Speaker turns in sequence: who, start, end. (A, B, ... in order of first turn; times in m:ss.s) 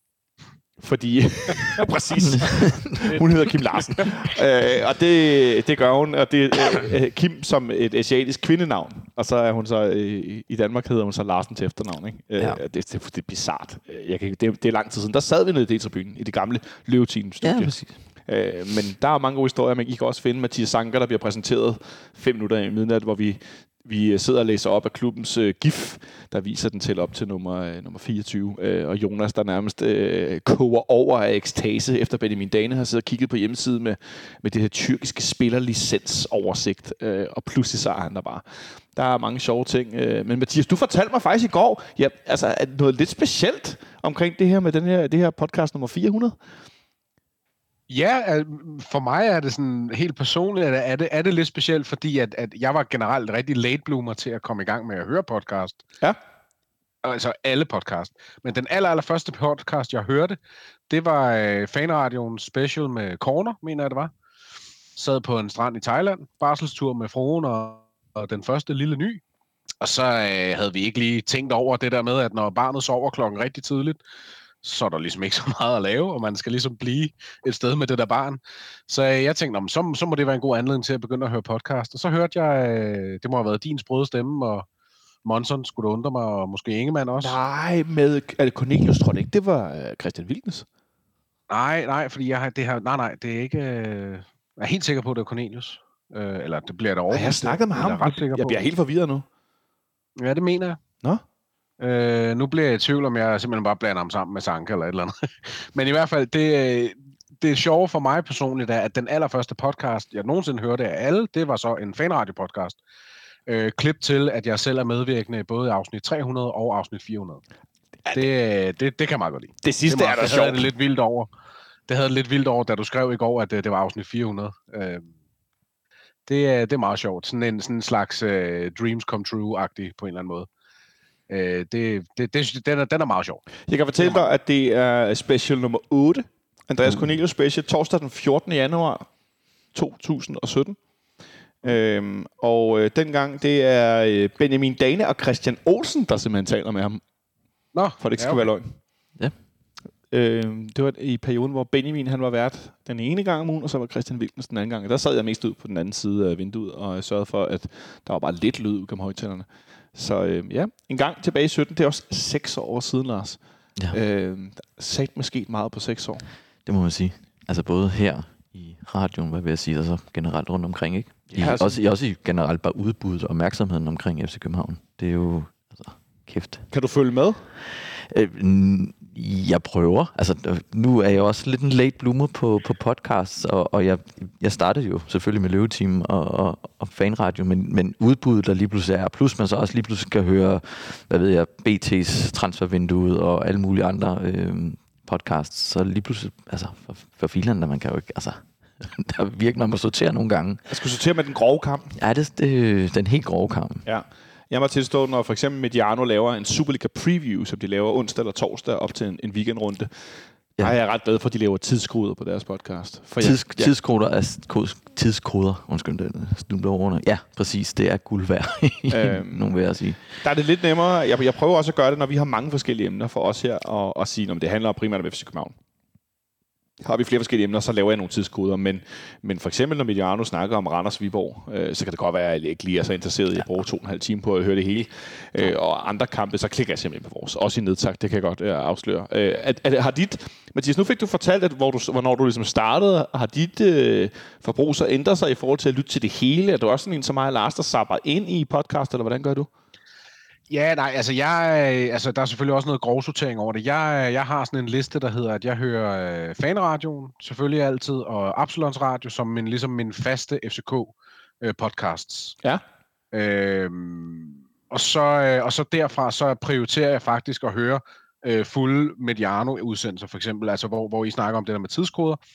0:00.8-0:46.4 A
0:02.2-0:03.1 B
0:03.1-0:04.2 C
0:17.4-0:18.0 B
0:47.9-0:55.8 C
0:57.0-1:00.4 C
1:00.9-1:04.1 C
1:05.0-1:09.2 C
1:09.8-1:14.0 C
1:14.6-1:24.7 C
1:25.2-1:27.4 C
1:27.2-1:30.7 A
1:31.5-1:38.6 C
1:37.1-1:39.3 A
1:40.2-1:40.8 C
1:41.8-1:52.8 C
1:53.5-1:57.4 C
1:58.1-2:01.3 C
1:59.6-2:00.7 A
2:01.9-2:05.1 C
2:06.3-2:10.5 C
2:11.3-2:13.4 C
2:13.6-2:19.1 A
2:14.0-2:14.3 C
2:19.7-2:20.8 A
2:21.6-2:27.0 A
2:27.7-2:28.5 C
2:28.0-2:28.8 A
2:30.1-2:43.4 A
2:43.9-2:46.2 A
2:46.7-2:56.7 B
2:51.3-2:51.8 A
2:56.7-2:57.4 A
2:58.1-3:20.6 B
3:20.7-3:22.0 A
3:22.0-3:23.9 B
3:23.8-3:33.7 A
3:33.2-3:40.1 B
3:38.9-3:39.5 A
3:40.2-3:45.6 A
3:46.8-4:09.5 A
4:10.5-4:22.4 C
4:23.1-4:32.2 C